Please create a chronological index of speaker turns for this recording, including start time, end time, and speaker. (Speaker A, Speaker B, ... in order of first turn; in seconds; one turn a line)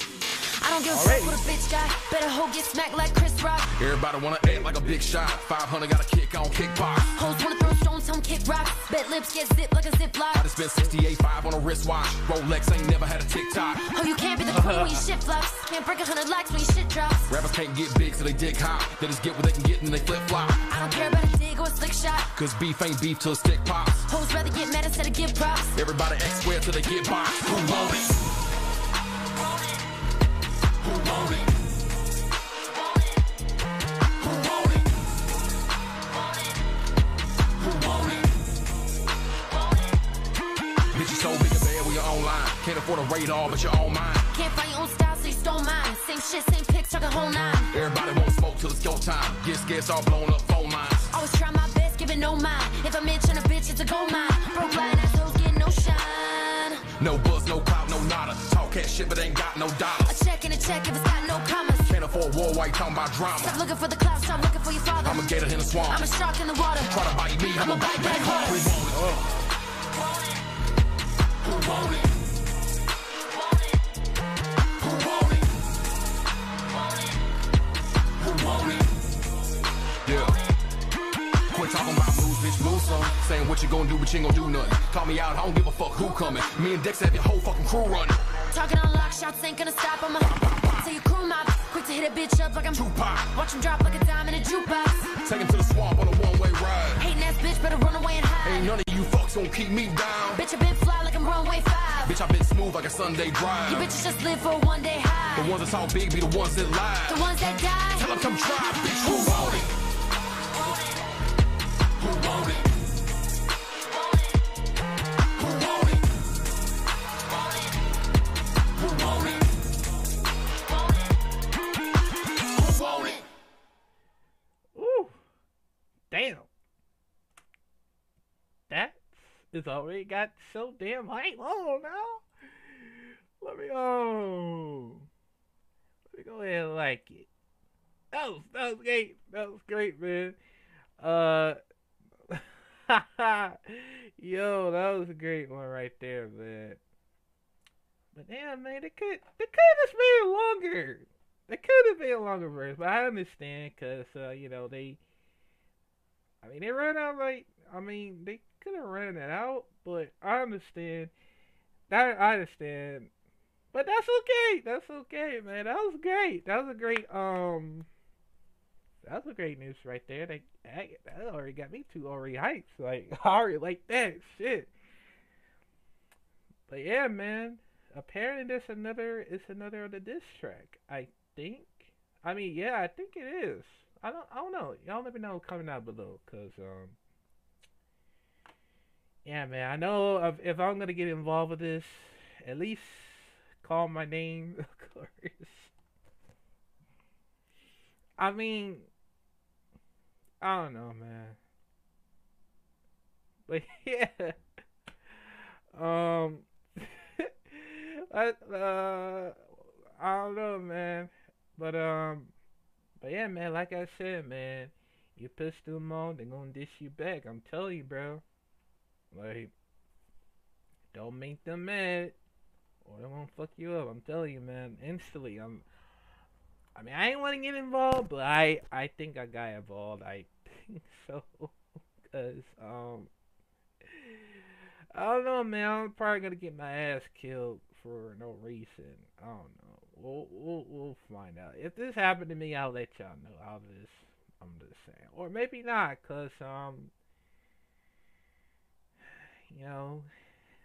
Speaker A: 0.6-3.7
Speaker B: 0.9-1.4
Speaker C: 3.7-7.2
Speaker A: 7.1-10.4
Speaker C: 10.3-13.9
Speaker A: 13.9-17.3
Speaker B: 14.5-15.1
Speaker C: 17.3-20.7
Speaker A: 20.7-22.3
Speaker C: 22.3-24.1
Speaker A: 24.1-25.8
Speaker C: 25.7-28.1
Speaker C: 40.9-44.3
Speaker A: 44.3-47.7
Speaker C: 47.7-51.1
Speaker A: 51.1-56.9
Speaker C: 56.9-60.2
Speaker A: 60.0-62.0
Speaker C: 61.9-63.6
Speaker A: 63.4-68.7
Speaker C: 65.0-66.0
Speaker C: 66.8-69.2
Speaker B: 68.9-69.3
Speaker C: 80.0-80.4
Speaker C: 81.5-88.4
Speaker A: 88.5-95.2
Speaker C: 90.2-90.9
Speaker C: 92.7-93.3
Speaker C: 95.2-97.1
Speaker A: 97.0-98.7
Speaker C: 98.4-100.4
Speaker A: 100.3-102.2
Speaker C: 102.0-103.9
Speaker A: 103.7-105.5
Speaker C: 105.3-107.2
Speaker A: 107.0-108.1
Speaker C: 107.9-109.7
Speaker A: 109.0-109.7
Speaker B: 124.7-125.2
Speaker B: 126.1-126.5
Speaker B: 128.7-135.1
Speaker B: 136.1-137.3
Speaker B: 138.1-140.4
Speaker B: 141.0-141.6
Speaker B: 142.3-146.8
Speaker B: 148.1-155.0
Speaker B: 156.4-161.1
Speaker B: 161.9-163.1
Speaker B: 163.7-167.9
Speaker B: 169.0-174.7
Speaker B: 176.7-187.0
Speaker B: 189.2-195.7
Speaker B: 198.2-198.9
Speaker B: 200.4-201.4
Speaker B: 203.5-204.3
Speaker B: 205.7-212.3
Speaker B: 213.0-218.2
Speaker B: 219.1-219.5
Speaker B: 220.9-222.2
Speaker B: 222.8-225.7
Speaker B: 226.8-231.6
Speaker B: 232.1-233.1
Speaker B: 233.9-234.3
Speaker B: 234.9-246.9
Speaker B: 249.1-250.1